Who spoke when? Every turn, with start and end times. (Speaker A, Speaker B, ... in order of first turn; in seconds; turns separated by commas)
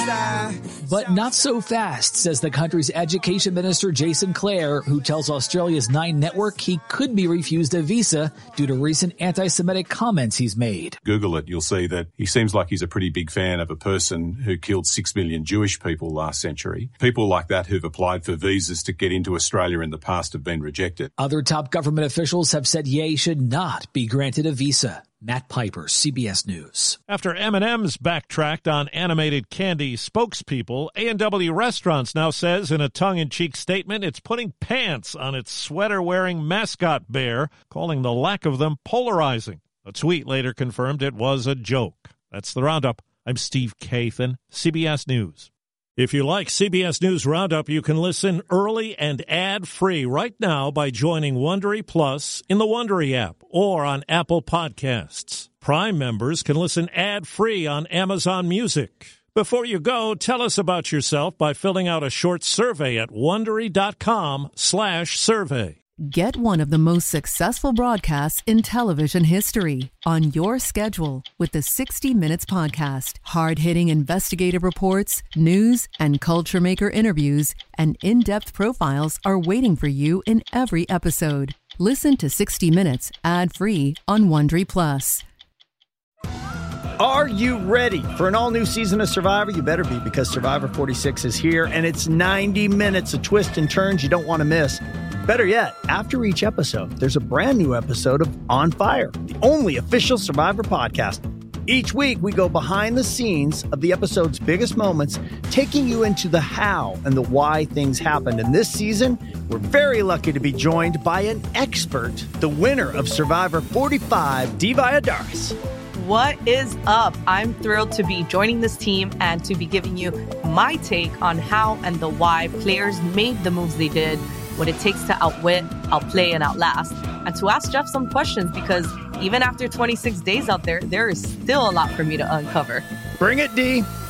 Speaker A: 0.8-11.0, Speaker B: 11.0-21.1, Speaker A: 21.2-27.0, Speaker C: 27.1-65.8, Speaker D: 66.0-85.2, Speaker E: 87.0-115.6, Speaker F: 116.0-132.8, Speaker E: 133.2-133.9